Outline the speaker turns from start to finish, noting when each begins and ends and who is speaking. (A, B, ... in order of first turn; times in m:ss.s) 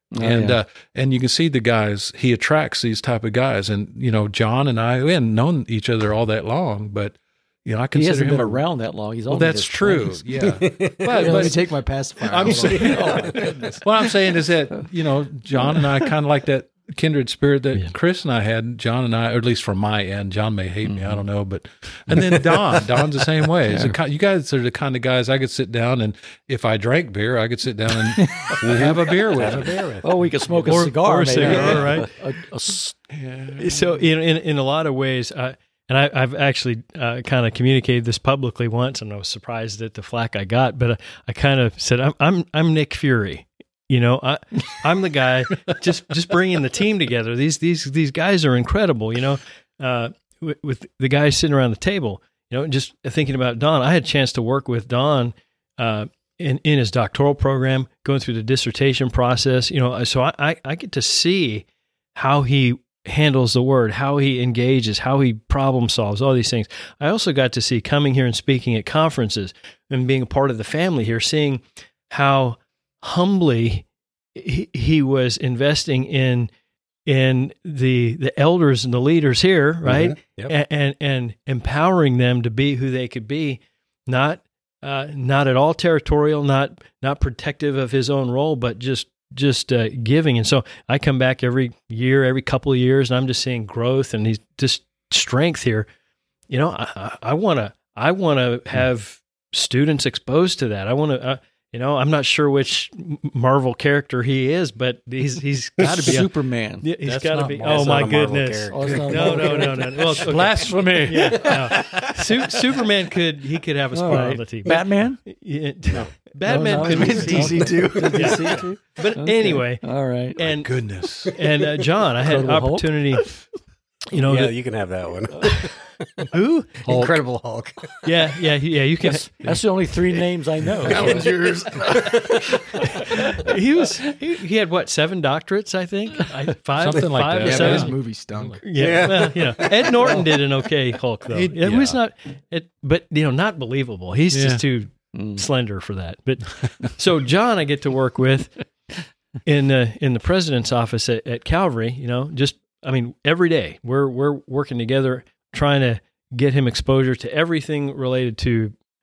0:00.1-0:00.6 A
0:00.2-0:08.6 B
0:07.9-0:10.5 A
0:09.3-0:11.6 B
0:10.4-0:11.3 C
0:11.1-0:13.7 D
0:11.2-0:11.5 A
0:12.2-0:30.0 B
0:12.5-0:13.3 C
0:12.5-0:13.8 A
0:20.9-0:21.2 A
0:22.1-0:22.8 A
0:28.6-0:30.0 C
0:30.0-0:33.0 A
0:30.5-0:32.1 B
0:30.6-0:32.1 E
0:33.1-0:34.0 B
0:33.5-1:16.5 E
1:17.0-1:35.9 E
1:19.8-1:20.5 C
1:36.5-1:59.8 E
1:45.8-1:46.9 A
1:47.0-1:48.1 B
1:47.6-1:49.7 C
1:48.7-1:49.8 A
1:48.8-1:51.8 B
1:53.9-1:55.2 A
1:56.4-2:00.5 A
1:56.8-1:58.3 D
1:57.3-1:58.5 C
2:00.4-2:00.7 E
2:00.5-2:01.3 B
2:01.3-2:03.3 E
2:02.2-2:03.3 A
2:04.1-2:04.5 E
2:04.2-2:06.3 C
2:06.3-2:06.7 E
2:06.8-2:07.2 B
2:06.8-2:08.1 C
2:08.0-2:09.3 E
2:09.0-2:11.9 A
2:10.8-2:12.6 C
2:13.1-2:17.9 E
2:16.7-2:18.6 B
2:17.4-2:18.8 D
2:18.6-2:28.7 E
2:18.8-2:20.2 C
2:21.3-2:22.0 B
2:24.3-2:24.6 B
2:25.1-2:25.4 A
2:29.4-2:38.7 E